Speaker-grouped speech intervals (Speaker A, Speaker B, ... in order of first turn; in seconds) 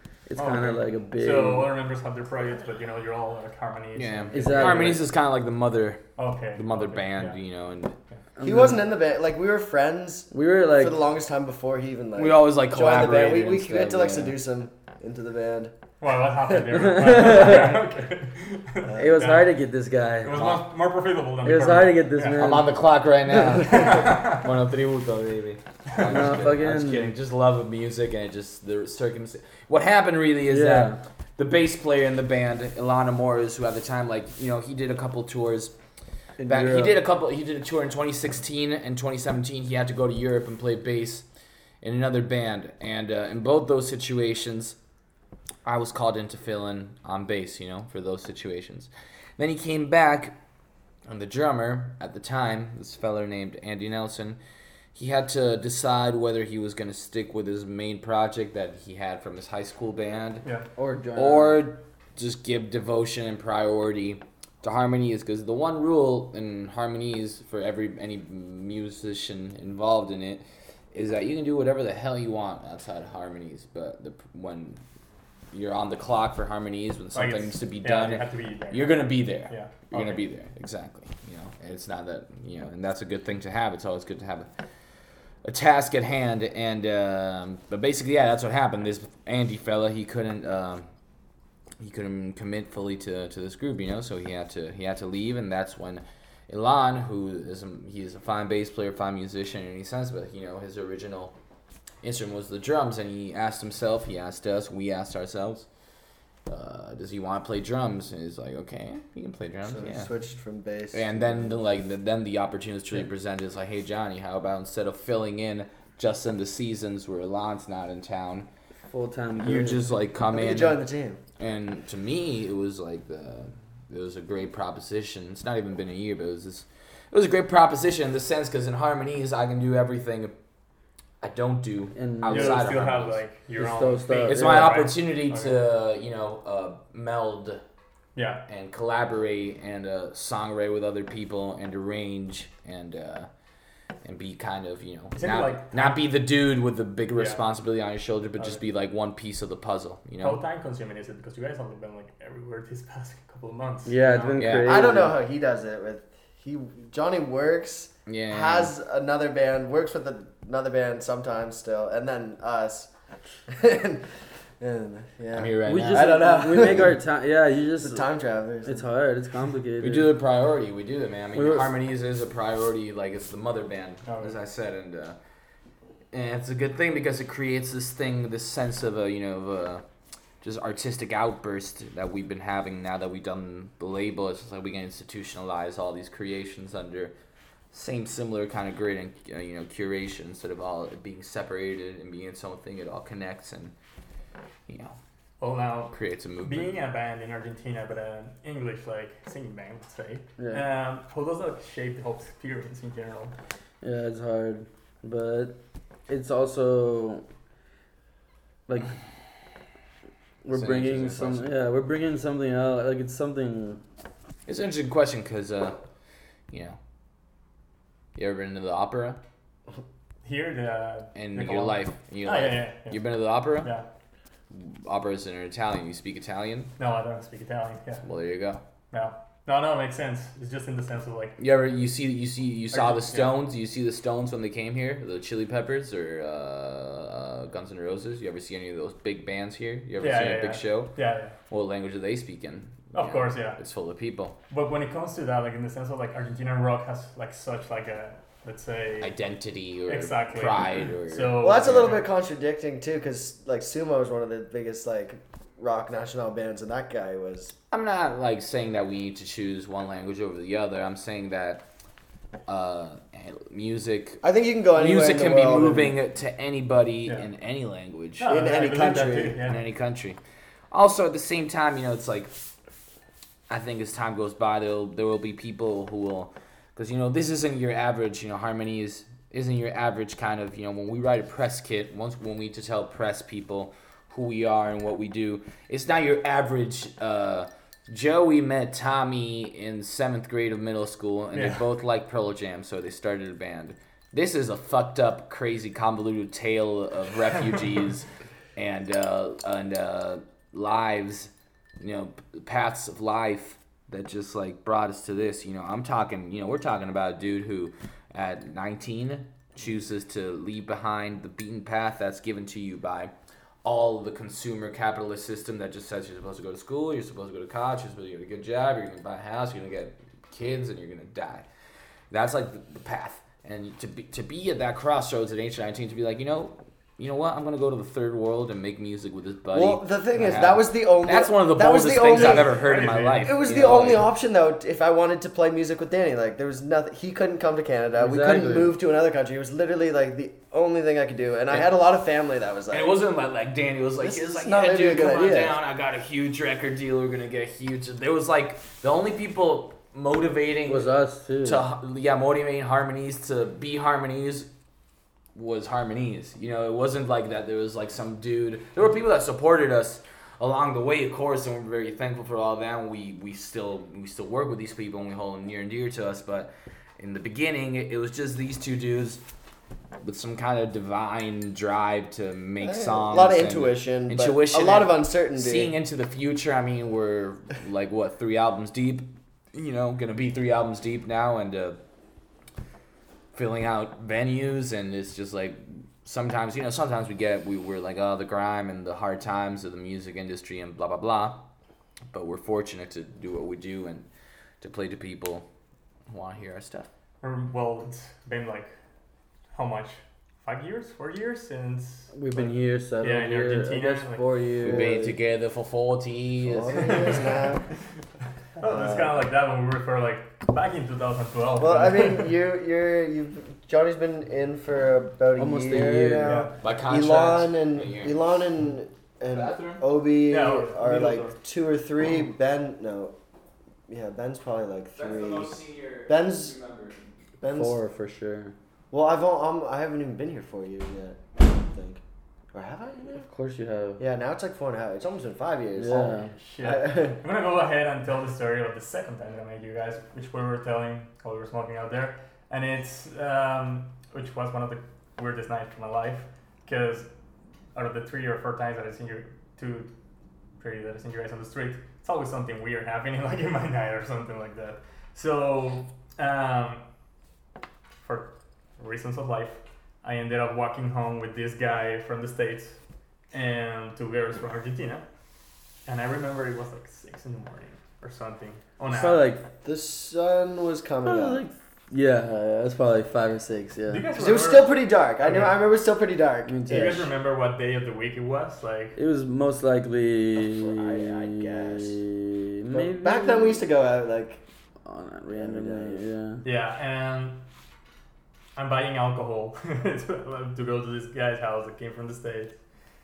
Speaker A: 0.3-1.7, 4.3-5.0, 8.4-8.8, 10.3-10.9, 16.7-17.8, 18.9-20.6, 21.4-23.6, 26.0-27.1, 30.5-31.0, 36.4-37.0, 60.8-61.6, 118.9-119.8, 131.9-132.7, 133.6-134.8, 153.8-155.2, 165.6-168.1, 168.6-170.1, 171.3-171.7, 200.4-200.6, 203.8-205.6, 206.1-207.2, 208.7-208.9, 210.4-213.8, 337.9-338.7, 350.6-351.6, 402.1-405.1, 415.4-416.4, 427.4-428.5, 433.1-434.0, 435.7-436.3, 468.9-469.5, 471.0-474.1, 476.4-477.1, 478.9-483.6, 484.8-486.4
Speaker B: 0.4-5.1, 6.2-7.4, 16.0-19.5, 20.2-22.6, 23.6-24.4, 25.9-26.3, 77.1-80.2, 132.3-135.6, 138.1-138.4, 145.1-146.0, 147.1-147.4, 150.2-154.4, 174.1-174.3, 195.4-203.3, 220.2-223.8, 226.8-228.0, 228.9-231.4, 232.7-233.3, 240.0-241.3, 242.9-243.6, 244.5-249.1, 249.9-252.0, 268.2-269.6, 291.3-291.6, 332.0-333.4, 397.2-398.7, 399.5-404.3, 406.7-407.5, 408.6-412.3, 416.2-416.6, 420.3-421.4, 436.3-447.1, 447.7-449.9, 450.6-456.8, 458.0-462.8, 463.3-465.0, 465.9-469.3, 473.9-475.6, 476.6-479.0, 486.4-487.4, 488.6-492.5
Speaker C: 3.9-6.0, 6.5-7.9, 12.2-14.3, 22.3-35.7, 36.5-41.2, 41.8-44.8, 45.6-50.4, 51.1-54.4, 54.9-60.4, 61.1-74.8, 75.5-84.5, 85.4-90.9, 91.8-101.3, 102.0-105.7, 106.5-110.1, 110.9-118.5, 119.4-120.8, 121.4-130.3, 131.2-133.2, 134.2-137.6, 138.5-143.3, 144.0-150.4, 154.4-154.9, 158.1-158.7, 165.3-166.9, 169.8-175.2, 176.1-179.8, 180.4-187.1, 187.7-193.7, 194.7-195.0, 195.9-196.7, 210.5-211.4, 214.4-215.8, 216.5-216.8, 218.1-219.2, 221.1-223.7, 224.5-226.7, 228.0-228.6, 231.4-240.9, 241.5-244.3, 249.0-252.0, 257.7-261.6, 262.5-264.2, 264.7-268.3, 269.4-270.2, 270.7-272.3, 273.5-313.1, 313.6-321.5, 322.1-334.1, 342.7-350.9, 351.4-354.5, 355.3-369.2, 370.0-381.8, 383.3-391.4, 392.1-394.0, 394.6-395.5, 396.1-396.9, 404.6-407.2, 416.6-418.2, 419.3-419.8, 425.0-427.0
Speaker D: 8.4-15.7, 109.6-111.6, 120.3-121.2, 154.6-162.9, 163.5-167.0, 167.8-168.9, 251.4-257.6, 264.2-265.9, 268.3-269.4, 329.5-342.9, 344.0-345.6, 372.6-375.7, 404.7-405.1, 406.4-407.6, 408.6-409.2, 411.6-423.1, 423.9-426.6, 427.4-427.8, 428.9-432.0, 432.5-433.3, 434.0-437.2, 469.6-471.4, 474.1-477.1, 480.4-482.0, 482.7-484.4, 485.3-486.0